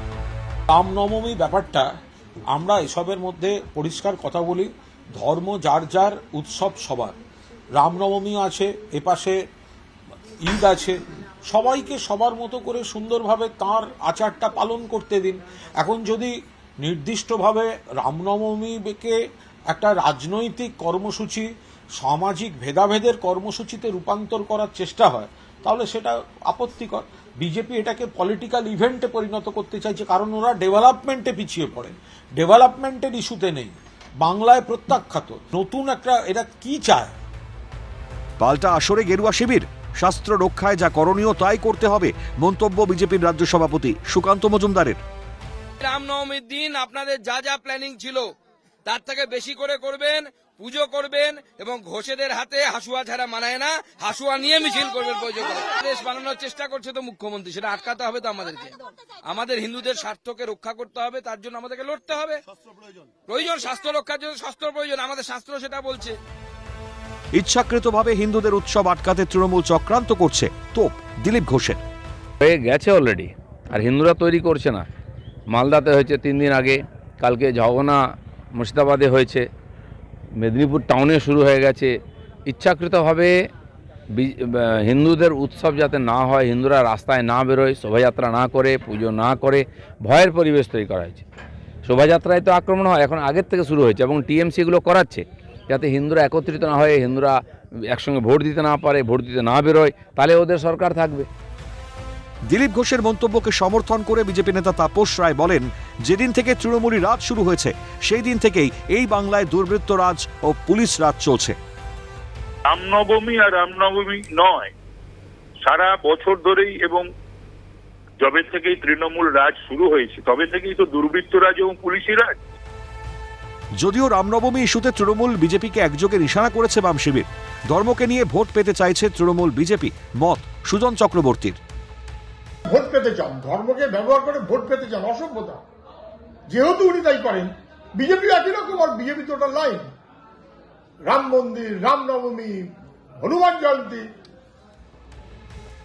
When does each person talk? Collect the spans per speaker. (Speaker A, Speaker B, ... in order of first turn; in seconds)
Speaker A: 0.7-1.9, 2.5-7.2, 7.8-9.4, 10.4-19.1, 19.7-37.1
Speaker B: 38.4-45.0, 67.4-71.8, 102.5-111.6, 123.8-131.6
Speaker C: 45.8-48.3, 48.9-62.4, 63.3-66.2
Speaker D: 72.4-74.8, 75.5-78.0, 78.5-79.5, 80.4-81.9, 82.5-83.3, 84.1-91.2, 91.8-101.3
Speaker E: 112.7-114.7, 115.6-117.1, 118.2-122.4
Speaker F: 132.7-135.6, 136.5-139.9, 141.1-142.7, 143.2-144.1